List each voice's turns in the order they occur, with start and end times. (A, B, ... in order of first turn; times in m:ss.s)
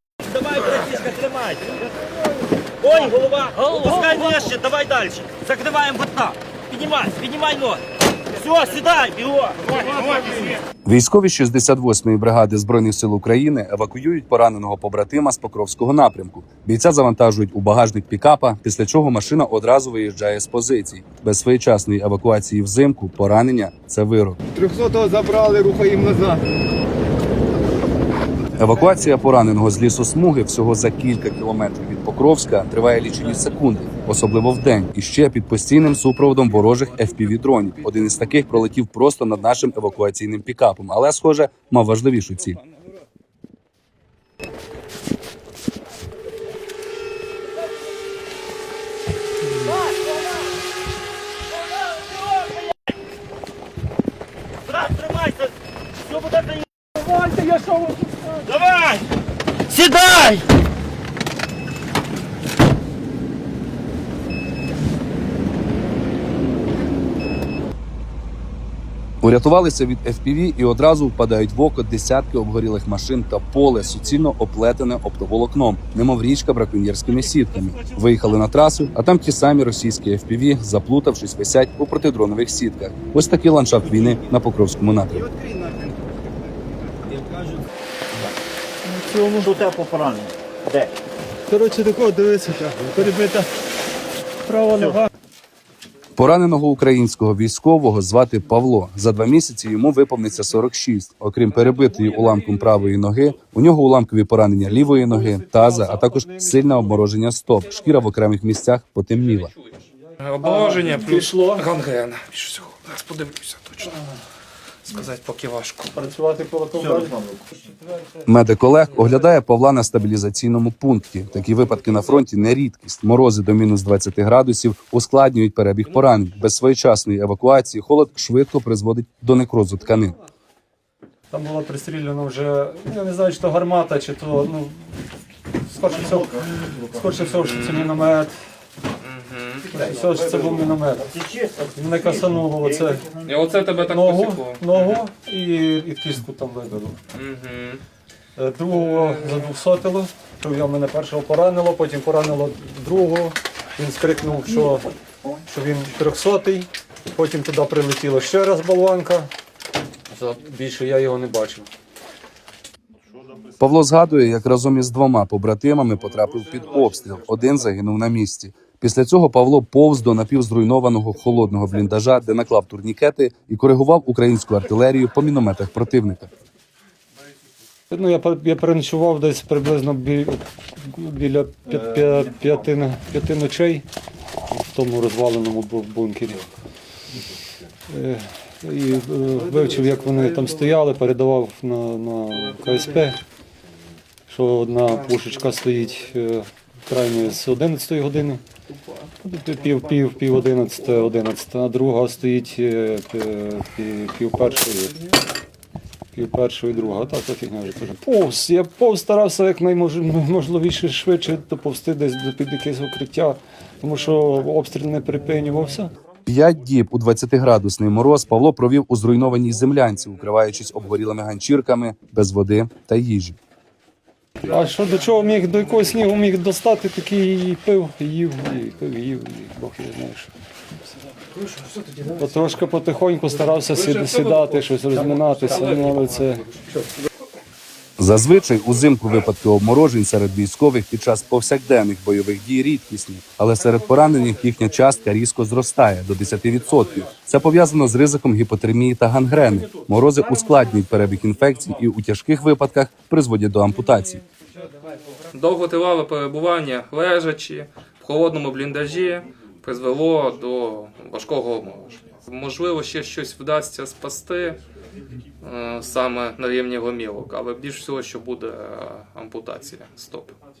0:00.2-0:01.8 A
0:02.8-0:10.6 A
0:10.8-0:24.4 B
0:24.5-0:26.4 C
0:28.6-0:42.6 B
0:49.7-0:50.4 A
0:51.6-0:52.8 A
0:54.6-0:56.6 A
0:57.0-0:58.4 D
0:58.4-0:59.1 A
0:59.7-1:00.4 A
1:09.2-1:25.3 B
1:25.2-1:26.7 C
1:27.1-1:27.6 A
1:28.8-1:29.6 D
1:29.4-1:30.9 A
1:31.5-1:33.5 D
1:34.4-1:35.1 D
1:36.2-1:49.5 B
1:44.6-1:46.9 D
1:49.1-1:54.0 E
1:50.4-1:51.6 D
1:54.8-1:55.9 E
1:55.9-1:58.2 D
1:57.0-1:57.4 A
1:58.2-2:10.2 B
2:11.3-2:14.9 D
2:15.7-2:18.4 D
2:15.9-2:17.0 A
2:17.2-2:18.0 E
2:19.0-2:19.7 E
2:19.7-2:23.3 A
2:19.7-2:23.0 D
2:23.2-2:25.0 E
2:23.8-2:27.0 D
2:27.1-2:27.8 E
2:28.4-2:34.9 D
2:28.8-2:29.5 E
2:35.4-2:39.3 D
2:40.1-2:41.7 D
2:43.6-2:56.3 B
2:57.9-3:03.8 D
3:04.5-3:06.4 D
3:07.9-3:13.2 D
3:09.8-3:10.2 E
3:14.3-3:18.4 D
3:19.2-3:25.0 D
3:26.1-3:35.9 D
3:36.2-3:43.4 B
3:44.4-3:50.3 D
3:51.4-3:52.2 E
3:52.1-3:56.5 D
3:53.5-3:56.6 E
3:58.0-4:14.2 B
4:15.3-4:24.6 E
4:25.4-4:30.3 E